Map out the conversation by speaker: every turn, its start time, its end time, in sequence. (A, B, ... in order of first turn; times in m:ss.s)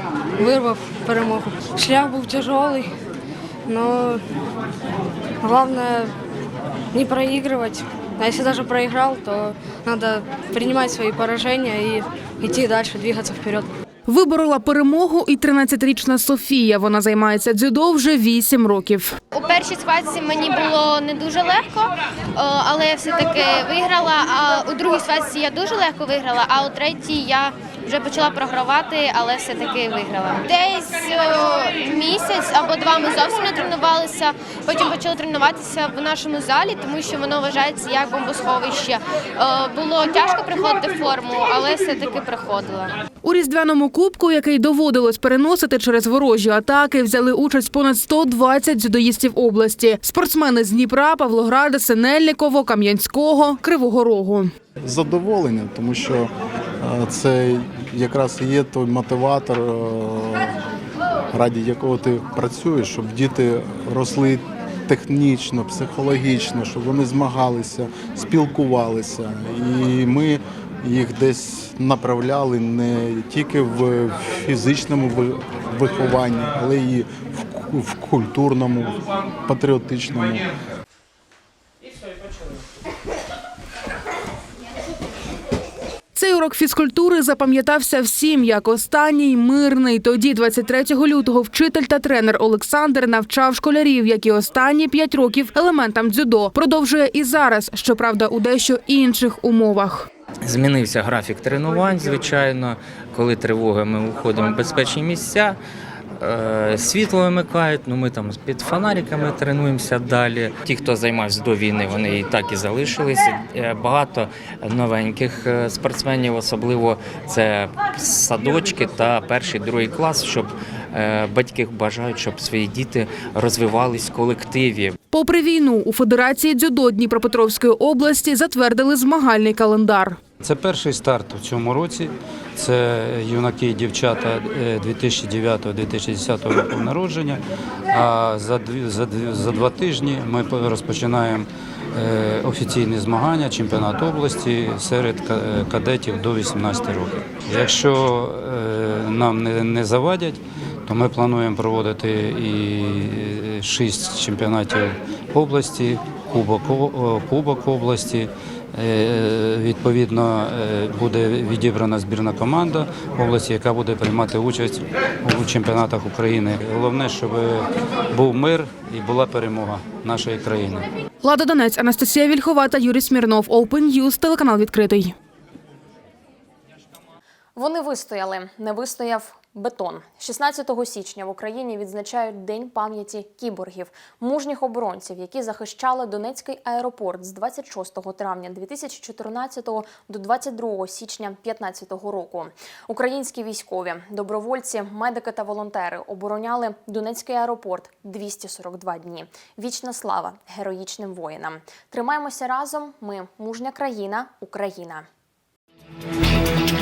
0:00.4-0:02.9 A
0:03.7-0:04.2 A
0:05.4-0:06.1 A
0:06.9-0:13.7 A
0:14.1-0:19.2 B
0:19.3-0:43.0 C
0:43.2-0:54.5 B
0:54.8-1:00.5 D
1:01.3-1:20.5 D
1:26.2-1:40.1 B
1:40.4-1:45.6 E
1:46.2-2:05.0 E
2:05.1-2:10.2 B
2:10.4-2:17.4 F
2:17.9-2:50.9 F
2:51.2-2:55.2 B
2:57.6-3:25.1 G